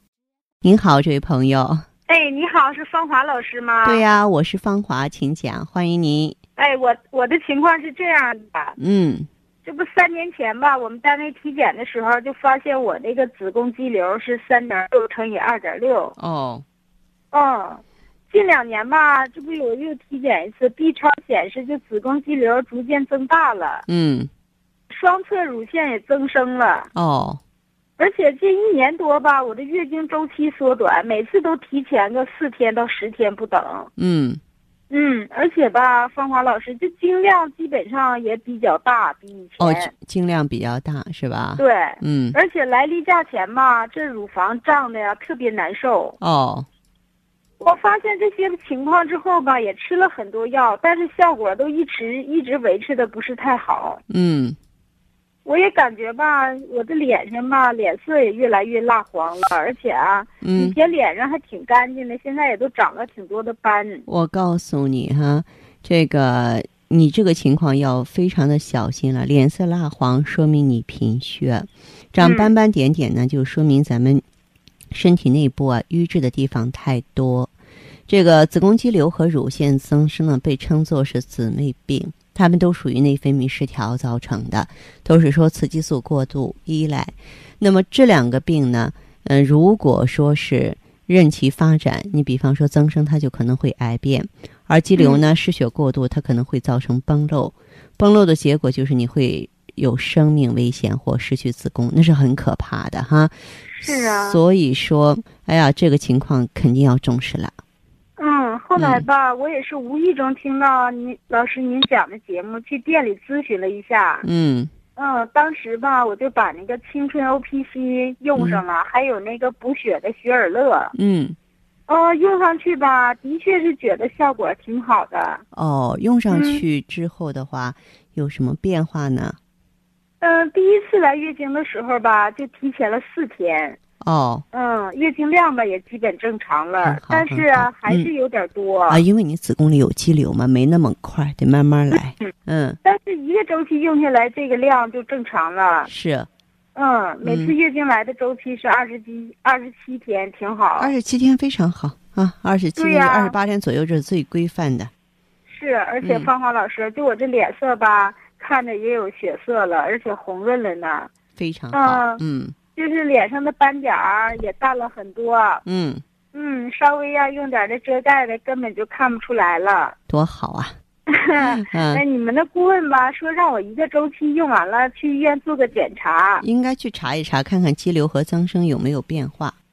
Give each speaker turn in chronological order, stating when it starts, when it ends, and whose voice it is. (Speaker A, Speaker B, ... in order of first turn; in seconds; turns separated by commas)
Speaker A: 0.6-1.9, Speaker B: 2.1-4.0, Speaker A: 3.9-6.4, Speaker B: 6.6-8.8, Speaker A: 8.8-9.3, Speaker B: 9.7-16.1, Speaker A: 16.2-16.6, Speaker B: 17.3-23.9, Speaker A: 23.9-24.3, Speaker B: 24.9-26.9, Speaker A: 27.0-27.4, Speaker B: 28.0-33.9, Speaker A: 34.0-34.4, Speaker B: 34.9-39.9, Speaker A: 39.6-42.4, Speaker B: 41.6-46.2, Speaker A: 46.2-46.7, Speaker B: 47.6-54.0, Speaker A: 54.1-54.6, Speaker B: 55.5-64.1, Speaker A: 60.4-60.8, Speaker A: 64.1-74.2, Speaker B: 72.2-72.5, Speaker A: 74.9-77.5, Speaker A: 78.1-107.6, Speaker B: 95.0-95.2, Speaker B: 103.8-104.4, Speaker B: 108.2-114.3, Speaker A: 108.8-109.1, Speaker A: 114.2-114.7, Speaker B: 115.0-120.9, Speaker A: 118.4-118.6, Speaker A: 121.0-121.4, Speaker B: 121.9-125.4, Speaker A: 125.5-129.4, Speaker B: 126.3-126.6, Speaker B: 130.2-133.8, Speaker A: 134.0-134.4, Speaker B: 134.5-139.0, Speaker A: 136.8-138.1, Speaker A: 138.9-142.8, Speaker B: 142.8-145.9, Speaker A: 145.9-146.3, Speaker B: 146.8-150.9, Speaker A: 147.2-147.5, Speaker A: 150.8-154.9, Speaker B: 152.8-153.3, Speaker B: 155.5-161.1, Speaker A: 156.0-156.3, Speaker A: 161.4-162.6, Speaker B: 161.7-162.2, Speaker B: 162.8-165.6, Speaker A: 165.7-166.0, Speaker B: 166.3-170.0, Speaker A: 170.1-170.8, Speaker B: 171.1-176.4, Speaker A: 171.4-172.0, Speaker A: 176.4-179.6